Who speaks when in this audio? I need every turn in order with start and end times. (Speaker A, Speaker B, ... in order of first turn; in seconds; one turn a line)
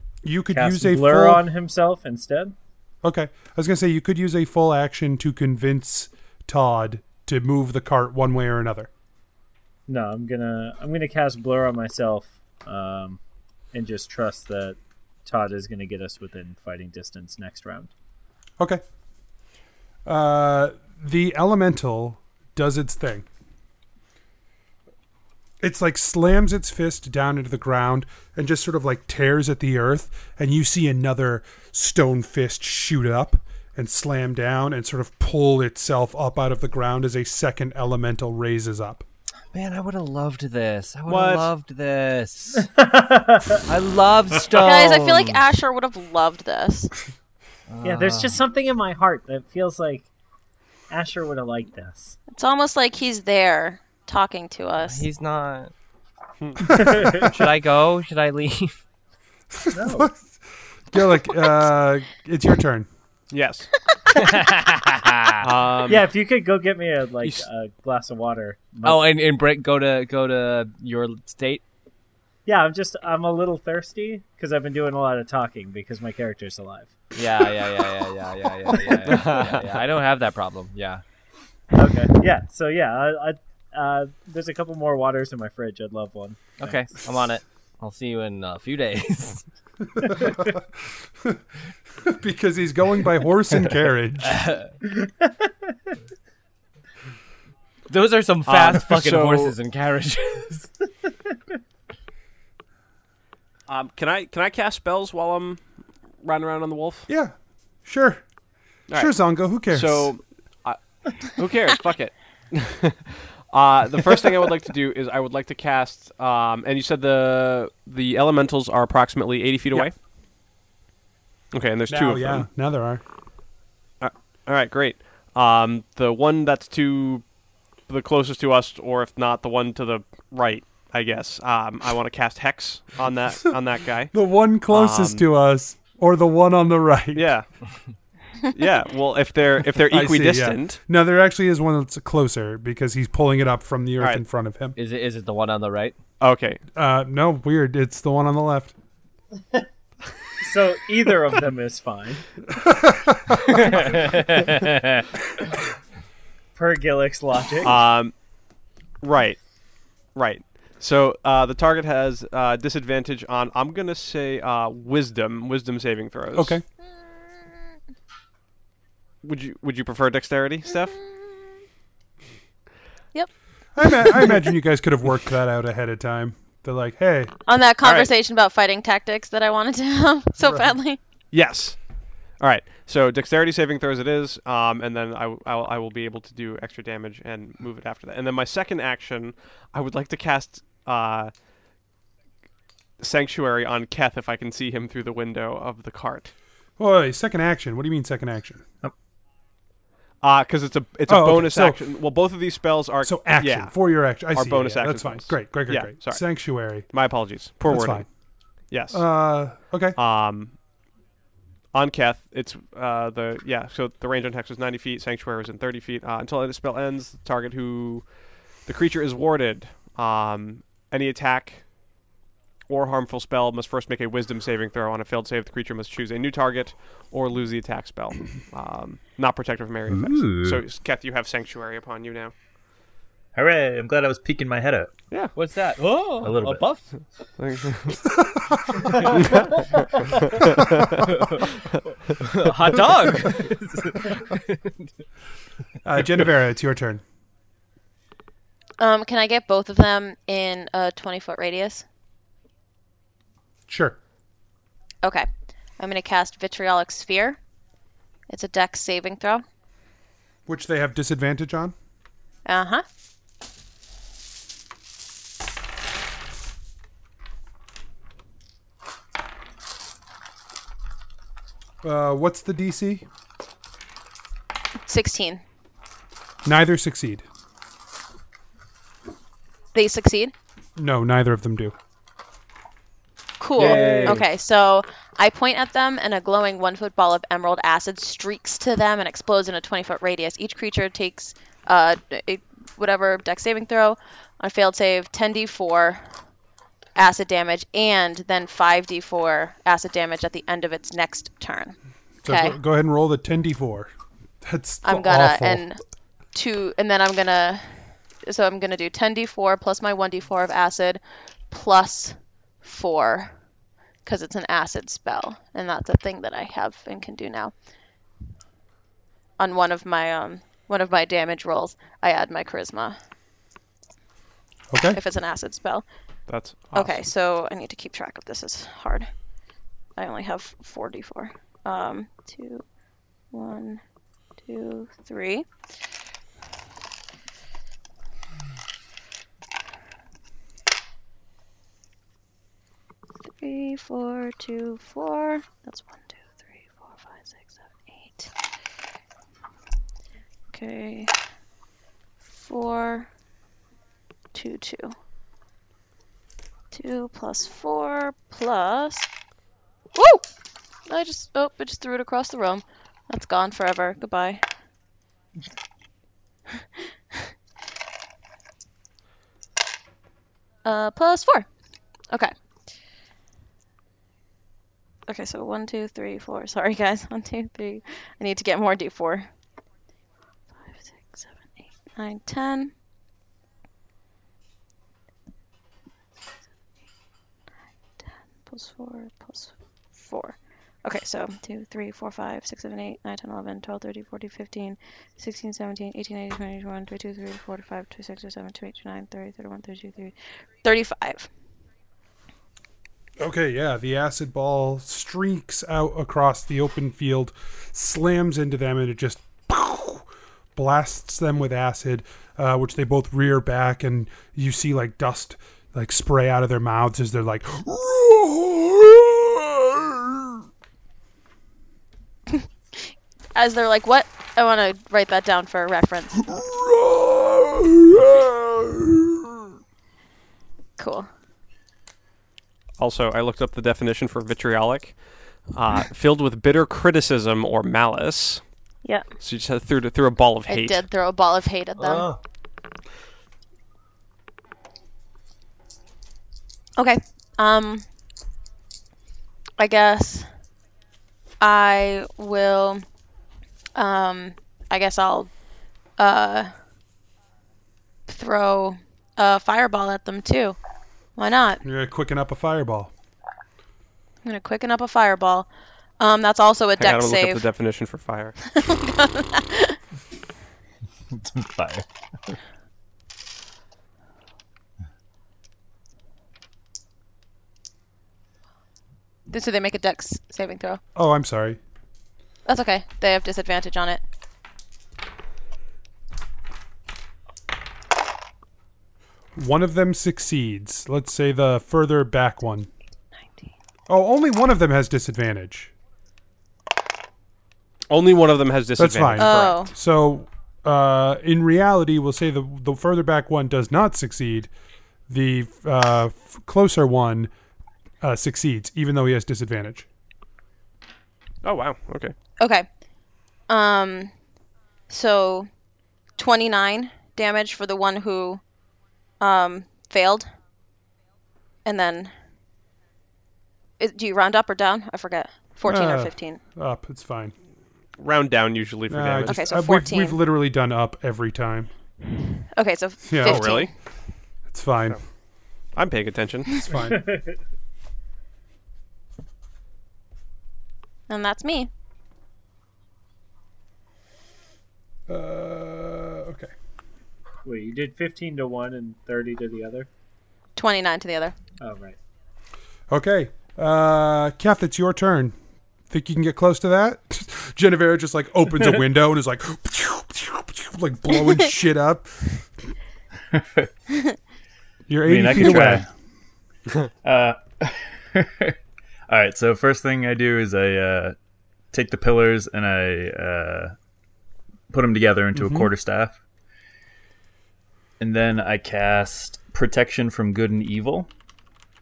Speaker A: 0.2-1.4
Speaker B: 0.5-2.6
Speaker A: 3.0-8.9
Speaker B: 9.9-13.2
Speaker B: 13.7-17.9
Speaker A: 20.1-23.3
Speaker A: 25.6-39.0
Speaker C: 39.5-42.7
Speaker D: 41.1-41.5
Speaker B: 42.6-43.6
Speaker C: 43.7-45.4
Speaker E: 44.5-46.9
Speaker C: 47.7-48.4
Speaker B: 47.8-50.1
Speaker B: 50.9-52.2
Speaker E: 52.3-55.1
Speaker C: 54.8-55.7
Speaker A: 56.7-57.1
Speaker C: 56.8-58.8
Speaker B: 56.9-57.3
Speaker A: 59.6-60.2
Speaker B: 59.7-60.1
Speaker A: 60.9-62.9
Speaker D: 63.3-63.7
Speaker C: 64.1-65.5
Speaker D: 65.4-66.1
Speaker B: 65.9-69.1
Speaker C: 68.8-71.6
Speaker B: 72.5-77.0
Speaker C: 77.2-81.0
Speaker D: 79.1-79.6
Speaker B: 81.7-87.0
Speaker C: 86.6-89.5
Speaker A: 90.0-90.6
Speaker A: 92.0-94.5
Speaker C: 94.2-94.7
Speaker B: 94.9-95.3
Speaker C: 97.9-100.7
Speaker D: 98.5-99.5
Speaker D: 103.7-105.6
Speaker D: 106.2-107.1
Speaker A: 107.1-107.3
Speaker A: 107.8-108.2
Speaker D: 108.9-119.9
Speaker A: 108.9-110.1
Speaker D: 121.5-122.5
Speaker A: 121.9-123.0
Speaker D: 124.0-127.2
Speaker D: 127.9-134.1
Speaker A: 134.1-137.3
Speaker D: 134.7-135.3
Speaker D: 137.2-137.7
Speaker D: 138.5-140.8
Speaker A: 139.9-144.8
Speaker C: 144.8-146.0
Speaker D: 146.2-146.6
Speaker A: 146.8-148.7
Speaker B: 150.4-152.2
Speaker A: 152.6-153.3
Speaker C: 153.4-155.0
Speaker B: 156.6-157.8
Speaker D: 157.6-158.1
Speaker D: 159.0-159.4
Speaker D: 160.2-166.6
Speaker A: 166.3-166.6
Speaker D: 169.2-171.0
Speaker A: 173.8-177.3
Speaker E: 174.0-174.4
Speaker E: 177.5-181.0
Speaker D: 177.8-178.1
Speaker A: 180.4-180.7
Speaker D: 181.3-181.8
Speaker D: 182.4-191.3
Speaker D: 193.0-196.3
Speaker A: 196.8-198.6
Speaker D: 200.2-206.2
Speaker A: 201.1-201.8
Speaker A: 203.0-206.9
Speaker D: 206.9-208.1
Speaker A: 207.7-208.1
Speaker D: 208.7-209.0
Speaker A: 208.9-210.0
Speaker D: 210.0-210.6
Speaker D: 211.7-218.1
Speaker D: 218.7-221.6
Speaker D: 222.7-232.3
Speaker F: 229.9-230.6
Speaker F: 233.3-234.9
Speaker C: 235.3-237.0
Speaker F: 236.2-236.7
Speaker D: 237.4-238.1
Speaker A: 238.2-238.7
Speaker D: 239.0-241.2
Speaker C: 241.1-241.4
Speaker C: 242.2-244.8
Speaker A: 245.8-247.0
Speaker E: 248.8-251.8
Speaker A: 253.7-254.0
Speaker E: 255.8-257.4
Speaker E: 258.3-259.4
Speaker A: 260.5-261.7
Speaker E: 262.5-262.9
Speaker A: 271.8-273.1
Speaker E: 274.9-275.4
Speaker A: 276.4-277.2
Speaker E: 279.7-280.3
Speaker A: 280.8-281.8
Speaker E: 283.4-296.1
Speaker B: 283.6-284.3
Speaker C: 283.6-284.2
Speaker E: 297.0-302.6
Speaker A: 302.2-303.9
Speaker A: 304.4-305.6
Speaker E: 304.8-305.8
Speaker E: 306.3-313.4
Speaker E: 314.1-317.5
Speaker E: 319.4-323.0
Speaker A: 324.7-325.0
Speaker E: 324.9-325.9
Speaker D: 326.3-327.1
Speaker E: 326.7-329.1
Speaker E: 330.0-332.6
Speaker E: 333.3-333.8
Speaker E: 334.4-335.5
Speaker E: 343.4-348.3
Speaker E: 350.5-351.1
Speaker E: 352.3-353.1
Speaker E: 354.3-354.9
Speaker E: 356.7-359.1
Speaker E: 359.9-360.2
Speaker E: 360.9-364.5
Speaker E: 366.5-367.3
Speaker E: 370.6-371.5
Speaker E: 375.1-379.3
Speaker E: 380.6-381.3
Speaker E: 381.9-382.7
Speaker E: 388.0-401.3
Speaker A: 403.2-420.2
Speaker E: 422.3-426.4
Speaker A: 426.7-428.9
Speaker E: 430.8-431.1
Speaker D: 432.8-434.9
Speaker D: 435.5-438.4
Speaker D: 439.2-440.9
Speaker E: 440.5-442.1
Speaker F: 441.8-442.2
Speaker E: 446.8-447.9
Speaker E: 449.6-450.3
Speaker E: 451.4-452.8
Speaker E: 453.8-455.3
Speaker E: 456.0-456.5
Speaker E: 458.1-460.6
Speaker E: 461.2-461.6
Speaker A: 461.6-462.9
Speaker E: 464.2-465.5
Speaker E: 466.0-467.4
Speaker D: 466.8-468.4
Speaker E: 468.5-469.8
Speaker F: 471.1-472.4
Speaker E: 479.3-480.8
Speaker A: 480.9-481.6
Speaker E: 482.4-484.0
Speaker A: 489.4-492.7
Speaker A: 493.9-495.7
Speaker D: 497.9-499.7
Speaker A: 498.8-504.5
Speaker E: 499.2-499.7
Speaker A: 505.1-507.3
Speaker A: 508.0-509.9
Speaker D: 511.4-512.1
Speaker E: 512.4-512.7
Speaker E: 513.5-514.1
Speaker E: 514.9-515.5
Speaker E: 516.2-518.4
Speaker E: 519.2-520.3
Speaker E: 521.6-522.1
Speaker E: 523.8-526.4
Speaker A: 525.6-527.3
Speaker D: 528.0-529.4
Speaker A: 528.9-531.7
Speaker E: 529.3-530.2
Speaker E: 532.5-533.7
Speaker A: 533.1-533.5
Speaker D: 533.2-533.7
Speaker A: 534.5-535.0
Speaker D: 535.8-536.7
Speaker A: 536.6-537.1
Speaker B: 536.9-537.4
Speaker E: 541.1-541.7
Speaker A: 545.1-546.5
Speaker B: 547.4-549.9
Speaker E: 550.6-551.4
Speaker B: 551.6-552.0
Speaker A: 552.9-555.4
Speaker A: 555.9-562.4
Speaker F: 563.3-563.7
Speaker A: 564.9-565.9
Speaker F: 565.0-565.9
Speaker F: 567.0-568.6
Speaker F: 569.1-571.1
Speaker F: 571.7-573.8
Speaker F: 574.7-576.2
Speaker A: 575.4-575.7
Speaker F: 578.0-581.1